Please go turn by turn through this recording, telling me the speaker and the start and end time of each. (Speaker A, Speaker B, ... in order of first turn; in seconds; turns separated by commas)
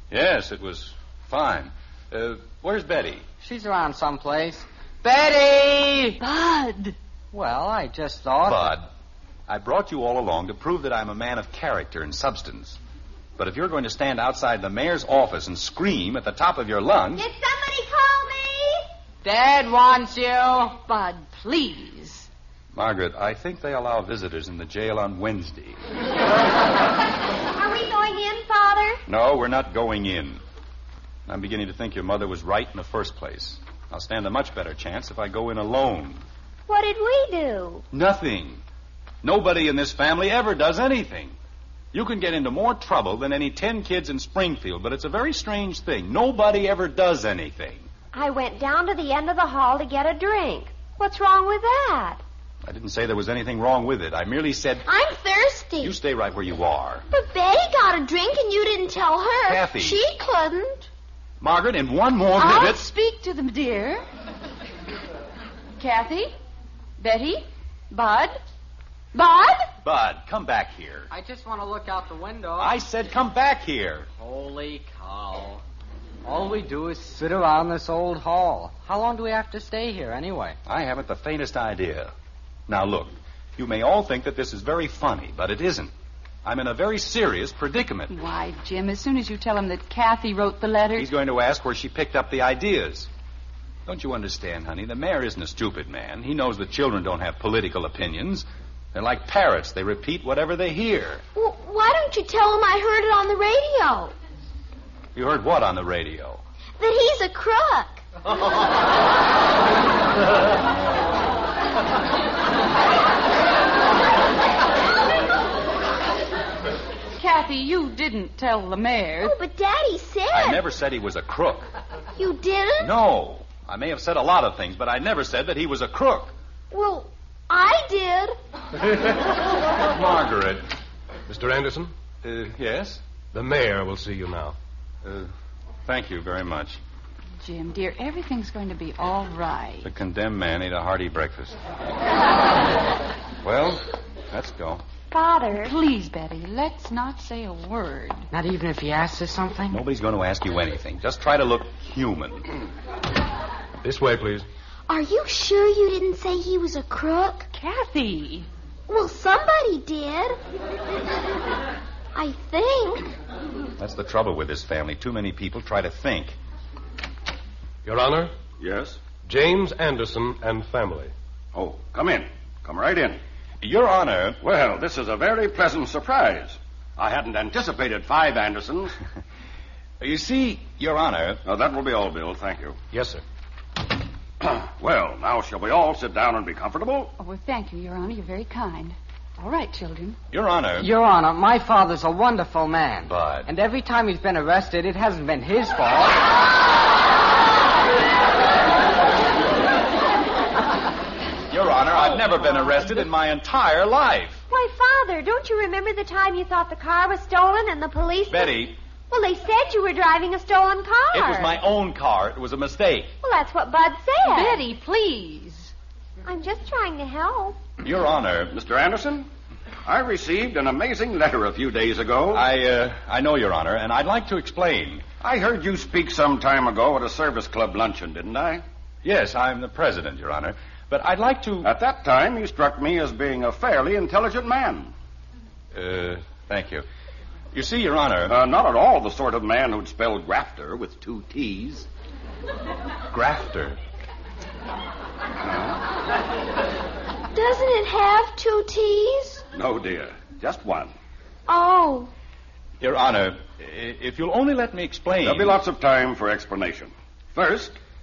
Speaker A: 0.1-3.2, Speaker B: 3.4-6.2, Speaker C: 6.2-7.0, Speaker B: 7.3-8.7, Speaker A: 8.4-8.9, Speaker A: 9.5-12.8, Speaker A: 13.4-17.3, Speaker D: 17.1-18.9, Speaker B: 19.2-20.8, Speaker C: 20.8-22.3, Speaker A: 22.7-25.8, Speaker D: 27.5-29.0, Speaker A: 29.1-30.4, Speaker A: 31.2-36.2, Speaker E: 36.7-37.8, Speaker A: 37.9-38.6, Speaker A: 39.2-41.4, Speaker A: 41.9-47.9, Speaker E: 48.1-52.2, Speaker A: 52.6-54.9, Speaker D: 54.9-55.9, Speaker A: 55.8-57.0, Speaker D: 57.1-60.9, Speaker A: 59.4-60.0, Speaker A: 61.4-62.9, Speaker C: 62.4-64.0, Speaker C: 65.8-66.3, Speaker C: 67.0-68.4, Speaker C: 69.1-69.7, Speaker A: 69.8-71.1, Speaker B: 71.1-72.8, Speaker A: 72.6-74.1, Speaker B: 74.2-75.6, Speaker B: 76.2-80.6, Speaker A: 80.7-82.1, Speaker A: 82.7-85.9, Speaker A: 86.4-88.1, Speaker C: 88.1-91.1, Speaker A: 91.0-93.1, Speaker A: 93.8-101.2, Speaker D: 101.3-104.1, Speaker A: 105.1-106.4, Speaker D: 106.8-108.0, Speaker C: 117.2-119.4, Speaker D: 119.2-120.6, Speaker A: 120.3-121.7, Speaker D: 122.2-122.9, Speaker A: 122.8-126.3, Speaker D: 126.7-128.4, Speaker A: 129.8-130.7, Speaker F: 131.3-131.9, Speaker A: 132.2-133.0, Speaker F: 133.3-134.6, Speaker A: 135.0-135.3, Speaker A: 135.8-136.8, Speaker C: 137.4-139.9, Speaker A: 139.8-141.6, Speaker A: 143.4-144.8, Speaker E: 145.1-145.7, Speaker C: 145.6-148.3, Speaker B: 148.3-149.8, Speaker A: 149.7-152.5, Speaker F: 153.8-154.4, Speaker D: 154.9-157.5, Speaker C: 157.5-158.5, Speaker D: 158.9-160.4, Speaker D: 162.1-163.1, Speaker A: 163.8-166.3, Speaker F: 167.8-168.3, Speaker G: 168.6-169.0, Speaker F: 169.2-171.1, Speaker G: 171.5-173.2, Speaker A: 173.6-174.4, Speaker G: 174.4-178.9, Speaker A: 180.0-181.4, Speaker G: 181.4-182.8, Speaker F: 182.9-183.2, Speaker G: 184.4-187.1, Speaker C: 187.2-190.2, Speaker A: 190.3-190.9, Speaker B: 190.8-196.2, Speaker A: 193.0-193.5, Speaker A: 201.5-204.4, Speaker E: 204.5-211.6, Speaker A: 208.3-208.8, Speaker A: 211.1-213.1, Speaker E: 213.2-214.6, Speaker C: 214.2-215.7, Speaker E: 216.2-217.6, Speaker A: 217.8-218.6, Speaker G: 218.5-219.3, Speaker G: 219.8-222.4, Speaker A: 222.3-225.1, Speaker G: 225.2-228.6, Speaker A: 229.0-231.7, Speaker G: 231.6-234.9, Speaker A: 235.7-236.8, Speaker A: 237.5-238.4, Speaker G: 238.3-241.9, Speaker A: 243.1-243.8, Speaker G: 245.4-245.8, Speaker D: 247.3-249.4, Speaker G: 249.5-250.9, Speaker D: 251.5-252.1, Speaker A: 252.8-255.6, Speaker G: 255.2-257.8